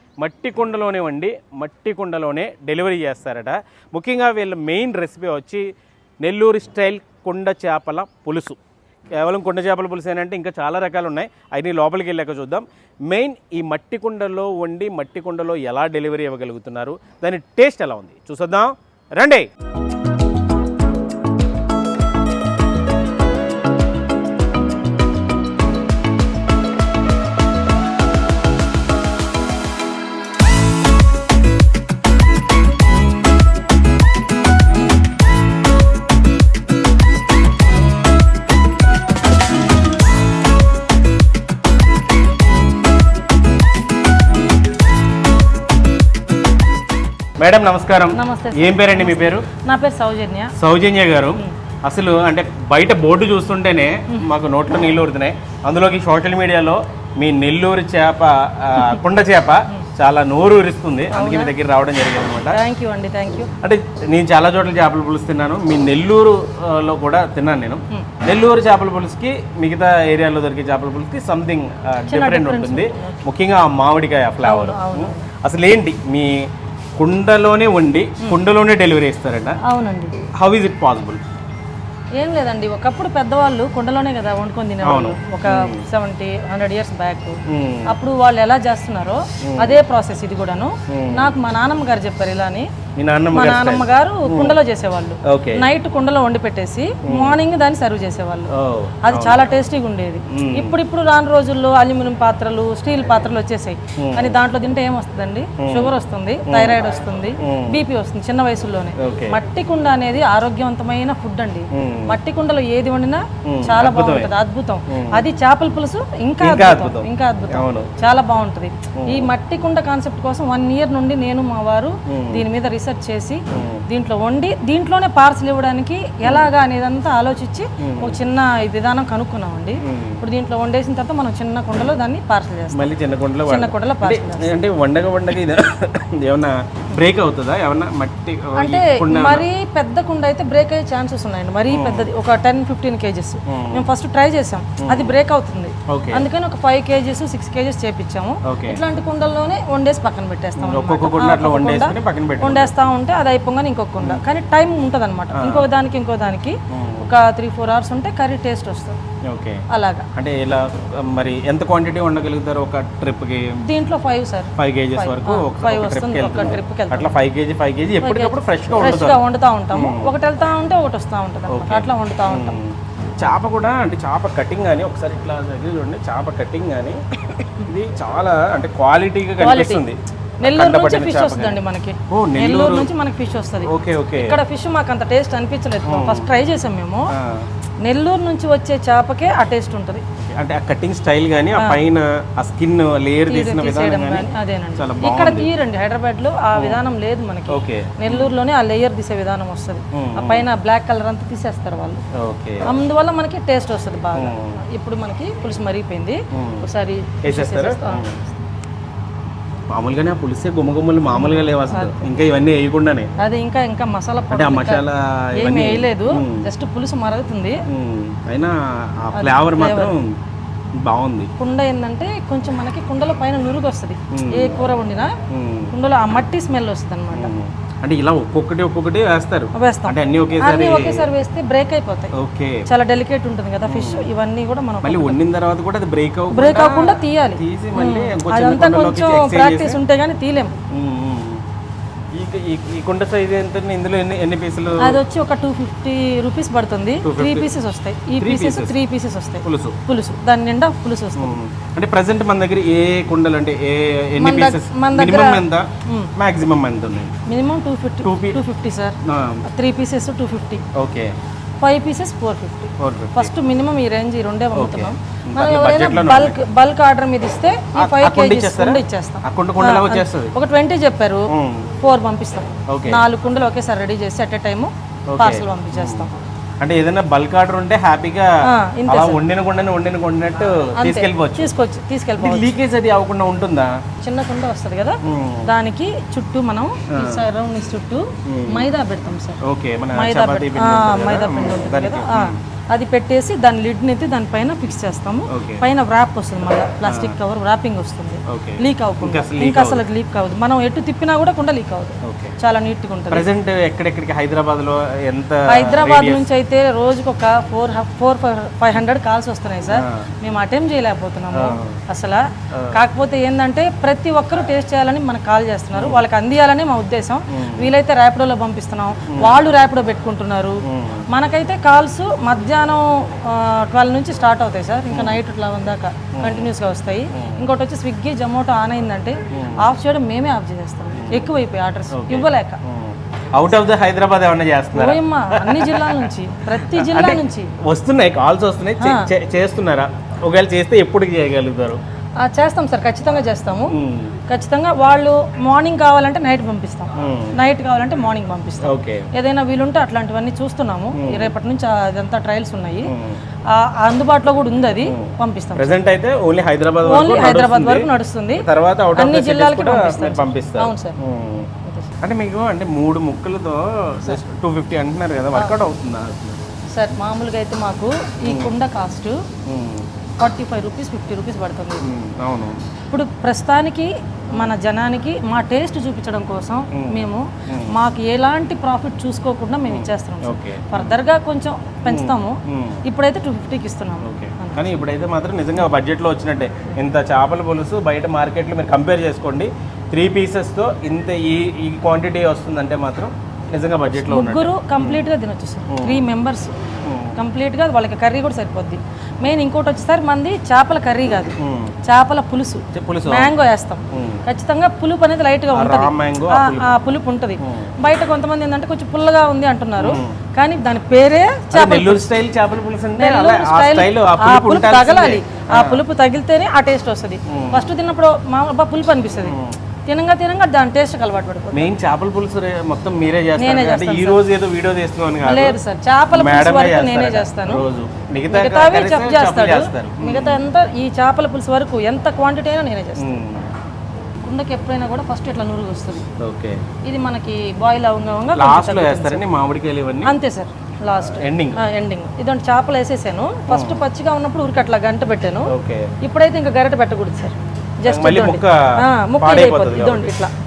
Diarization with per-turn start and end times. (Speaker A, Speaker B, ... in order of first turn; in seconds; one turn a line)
Speaker A: 0.2-5.7
Speaker A: 6.2-8.6
Speaker A: 9.1-19.5
Speaker A: 47.4-49.5
Speaker B: 48.1-50.5
Speaker A: 50.5-62.6
Speaker B: 61.1-61.5
Speaker B: 62.4-63.5
Speaker A: 63.6-79.6
Speaker B: 72.1-73.2
Speaker B: 74.4-75.3
Speaker B: 79.6-80.2
Speaker A: 80.3-81.2
Speaker B: 82.2-92.7
Speaker A: 84.8-85.8
Speaker A: 87.5-87.9
Speaker A: 89.4-89.8
Speaker A: 90.9-91.3
Speaker A: 93.0-94.6
Speaker B: 93.3-98.5
Speaker A: 95.2-95.6
Speaker A: 97.0-97.4
Speaker A: 98.5-99.5
Speaker B: 99.0-132.9
Speaker A: 100.3-100.8
Speaker A: 104.0-104.4
Speaker A: 105.6-105.9
Speaker A: 106.5-106.8
Speaker A: 107.4-107.8
Speaker A: 109.0-109.4
Speaker A: 111.7-112.2
Speaker A: 113.4-114.3
Speaker A: 114.9-115.2
Speaker A: 116.4-117.9
Speaker A: 119.0-119.3
Speaker A: 122.1-122.4
Speaker A: 123.5-123.8
Speaker A: 127.8-128.2
Speaker A: 129.8-130.2
Speaker A: 132.7-139.4
Speaker B: 133.4-134.5
Speaker B: 138.6-159.0
Speaker A: 141.7-142.1
Speaker A: 143.5-143.9
Speaker A: 144.8-145.1
Speaker A: 145.9-146.3
Speaker A: 148.4-148.8
Speaker A: 150.6-152.7
Speaker A: 155.3-155.7
Speaker A: 156.7-157.1
Speaker A: 159.2-159.6
Speaker B: 159.7-160.1
Speaker A: 160.1-163.6
Speaker B: 163.6-167.1
Speaker A: 164.6-170.1
Speaker B: 168.0-172.6
Speaker A: 171.5-182.9
Speaker B: 179.4-179.8
Speaker B: 180.4-187.1
Speaker A: 183.6-184.4
Speaker A: 185.9-186.3
Speaker A: 187.1-187.5
Speaker B: 187.8-190.0
Speaker A: 190.2-195.5
Speaker B: 191.5-191.8
Speaker B: 193.3-202.0
Speaker A: 196.5-196.8
Speaker A: 197.5-198.3
Speaker A: 199.9-200.5
Speaker A: 202.2-202.7
Speaker B: 202.6-208.4
Speaker A: 204.1-204.6
Speaker A: 206.3-206.7
Speaker A: 207.2-208.2
Speaker A: 209.7-213.1
Speaker B: 211.1-212.2
Speaker B: 213.2-217.6
Speaker A: 214.3-216.5
Speaker A: 217.7-220.2
Speaker B: 219.1-219.9
Speaker A: 220.8-221.3
Speaker B: 221.4-225.1
Speaker A: 224.1-224.6
Speaker A: 225.3-226.2
Speaker B: 225.7-227.3
Speaker A: 227.1-231.1
Speaker B: 229.5-232.1
Speaker A: 232.1-232.7
Speaker B: 232.7-235.2
Speaker A: 233.7-234.1
Speaker A: 234.8-239.8
Speaker B: 236.3-240.5
Speaker A: 240.7-241.4
Speaker A: 242.1-245.0
Speaker B: 244.8-251.3
Speaker A: 247.0-247.5
Speaker A: 248.2-248.8
Speaker A: 249.4-249.8
Speaker A: 251.2-257.1
Speaker B: 254.2-256.1
Speaker B: 257.3-260.6
Speaker A: 258.0-258.4
Speaker A: 259.0-259.4
Speaker A: 260.7-261.1
Speaker B: 261.6-276.1
Speaker A: 262.8-263.3
Speaker A: 264.5-266.4
Speaker A: 267.7-270.3
Speaker A: 271.3-271.7
Speaker A: 272.7-273.0
Speaker A: 275.1-276.1
Speaker A: 276.6-278.3
Speaker B: 278.4-279.2
Speaker A: 278.9-281.5
Speaker B: 280.8-282.5
Speaker A: 282.2-283.8
Speaker B: 284.0-289.4
Speaker A: 285.0-285.5
Speaker A: 286.9-287.2
Speaker A: 288.2-288.7
Speaker A: 289.4-292.4
Speaker B: 289.9-303.3
Speaker A: 295.3-295.7
Speaker A: 296.8-297.1
Speaker A: 298.3-299.8
Speaker A: 302.0-302.4
Speaker A: 303.1-306.2
Speaker B: 305.5-332.6
Speaker A: 309.7-310.1
Speaker A: 311.3-311.8
Speaker A: 312.5-312.8
Speaker A: 315.7-316.0
Speaker A: 317.3-317.7
Speaker A: 319.1-319.4
Speaker A: 320.6-321.0
Speaker A: 324.9-325.2
Speaker A: 326.2-326.5
Speaker A: 327.1-327.4
Speaker A: 329.3-329.6
Speaker A: 331.0-331.3
Speaker A: 331.9-336.1
Speaker B: 334.7-337.5
Speaker A: 336.6-341.8
Speaker B: 338.8-339.1
Speaker B: 342.2-343.7
Speaker A: 343.7-344.2
Speaker B: 344.3-352.9
Speaker A: 347.0-347.4
Speaker A: 348.6-349.1
Speaker A: 350.9-351.3
Speaker A: 352.9-353.2
Speaker B: 353.5-355.7
Speaker A: 354.8-366.4
Speaker B: 356.8-361.0
Speaker B: 361.6-361.9
Speaker B: 366.7-369.2
Speaker A: 368.2-368.5
Speaker A: 369.4-369.9
Speaker B: 370.2-371.9
Speaker A: 371.8-372.6
Speaker B: 372.9-384.8
Speaker A: 376.7-377.7
Speaker A: 379.7-381.0
Speaker A: 381.9-382.8
Speaker A: 384.0-395.1
Speaker B: 394.0-396.5
Speaker A: 395.7-396.1
Speaker A: 396.8-397.2
Speaker B: 397.1-412.1
Speaker A: 401.4-401.8
Speaker A: 402.7-403.3
Speaker A: 403.9-404.2
Speaker A: 405.5-406.8
Speaker A: 407.4-407.7
Speaker A: 409.8-410.1
Speaker A: 411.5-415.8
Speaker B: 413.0-421.7
Speaker A: 417.3-417.7
Speaker A: 419.2-419.6
Speaker A: 421.5-425.6
Speaker B: 423.4-424.2
Speaker B: 425.2-427.6
Speaker A: 426.1-430.4
Speaker B: 428.3-433.2
Speaker A: 433.0-433.5
Speaker B: 434.2-436.0
Speaker A: 436.2-436.6
Speaker B: 436.8-439.2
Speaker A: 438.3-440.2
Speaker B: 440.0-445.5
Speaker A: 440.9-441.6
Speaker A: 443.5-443.8
Speaker A: 445.5-445.9
Speaker B: 446.0-450.3
Speaker A: 447.9-450.2